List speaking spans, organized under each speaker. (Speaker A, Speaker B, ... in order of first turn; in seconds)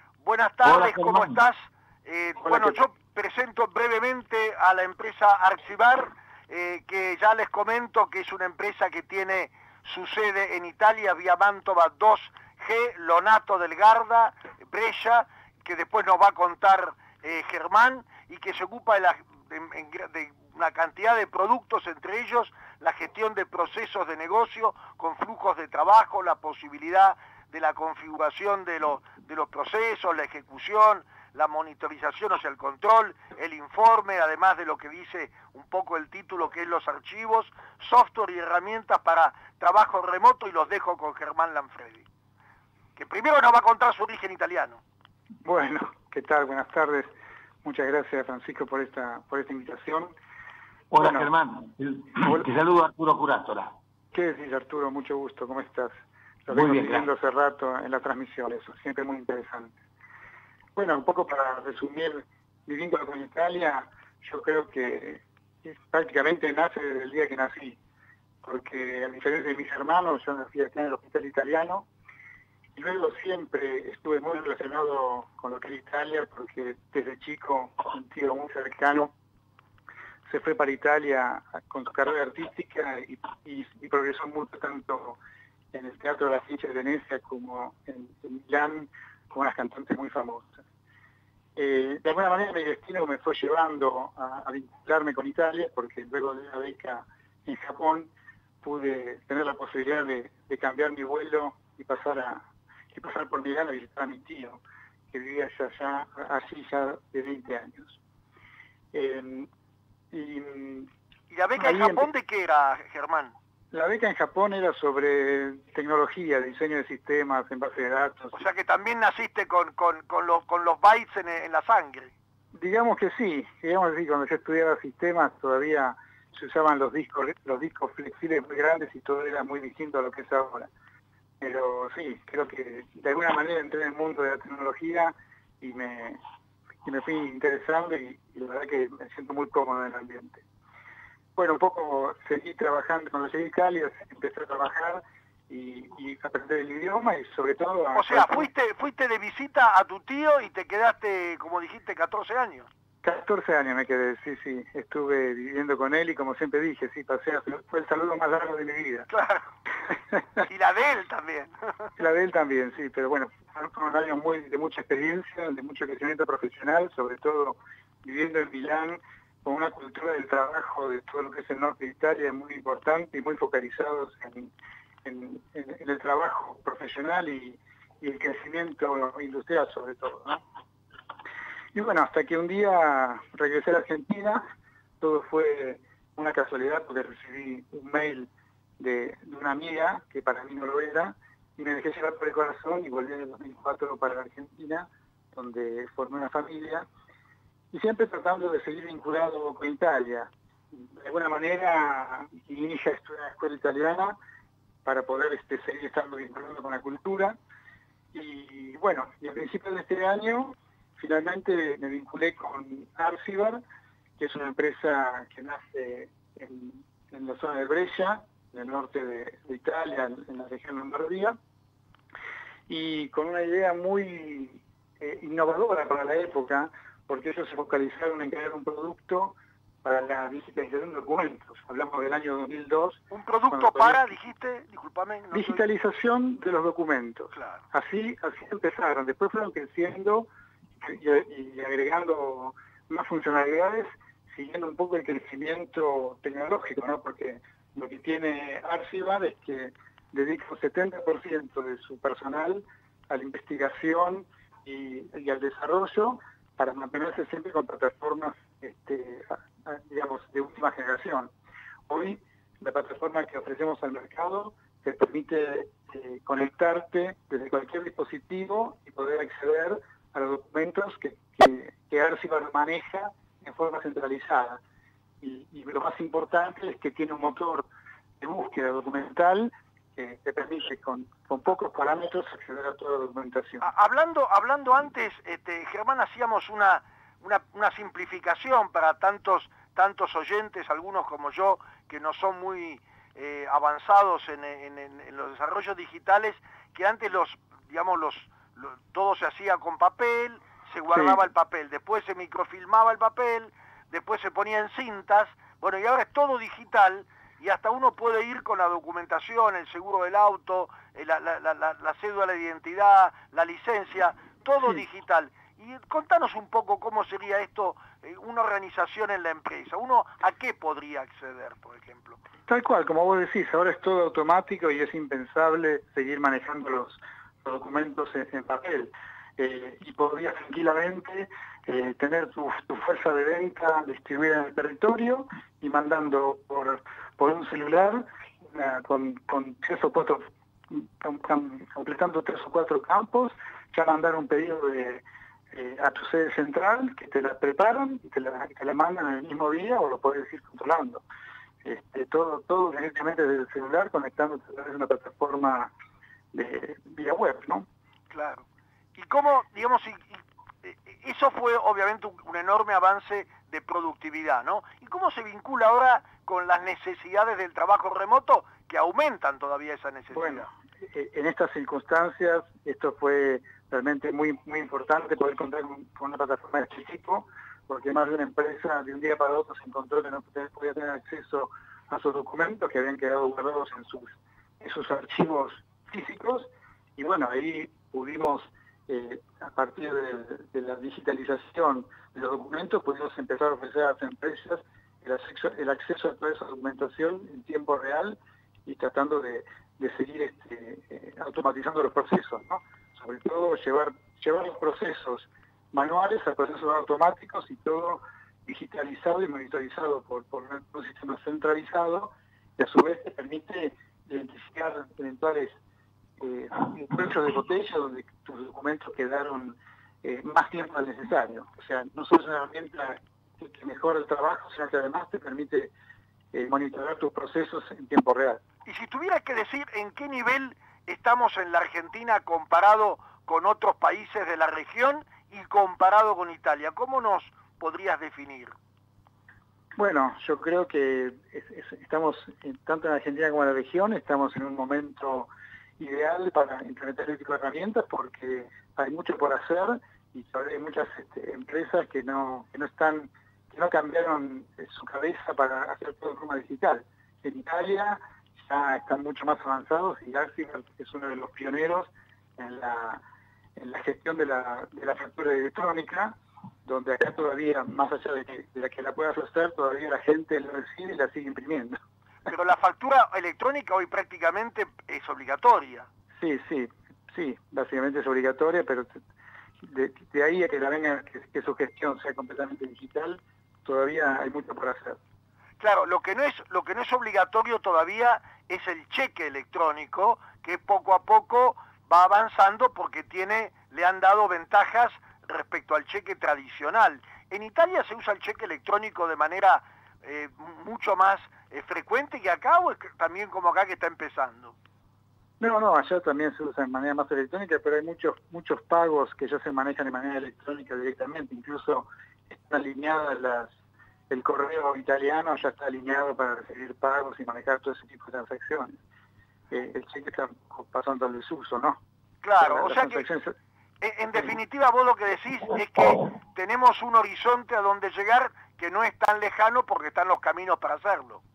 Speaker A: 0.2-42.1, 43.0-44.8, 111.3-113.3, 118.3-122.1, 147.9-152.7, 159.1-159.5, 160.4-161.5, 233.1-235.6, 237.3-237.6, 283.6-322.2, 358.1-358.4, 359.0-370.5, 428.7-438.6, 472.3-475.9, 485.6-504.5, 522.2-523.1, 523.8-531.2
Speaker B: 0.6-1.4, 50.9-53.7, 56.5-57.1
Speaker C: 2.4-2.8, 45.4-47.1, 47.6-50.1, 51.0-51.3, 52.2-52.5, 54.1-59.7, 60.8-67.8, 68.4-71.9, 72.8-79.1, 80.3-85.2, 85.7-90.6, 91.6-98.1, 98.6-104.6, 105.1-108.0, 108.9-109.5, 110.1-110.9, 111.6-112.1, 113.7-118.4, 122.5-130.7, 131.4-136.2, 136.8-140.4, 141.4-148.5, 153.0-159.1, 160.1-160.5, 162.0-174.5, 175.0-180.4, 181.8-184.4, 185.0-196.9, 197.7-204.2, 204.8-207.4, 208.1-213.6, 214.2-221.4, 222.7-234.1, 235.3-240.3, 240.8-261.3, 261.9-274.6, 275.2-277.7, 278.2-283.6, 300.9-301.2, 322.5-351.0, 351.6-355.7, 356.3-357.7, 370.1-415.6, 416.2-425.7, 426.3-428.4, 439.8-463.0, 463.6-471.8, 476.2-479.0, 479.6-485.0, 505.4-513.5, 514.1-518.8, 519.5-521.8, 522.4-523.4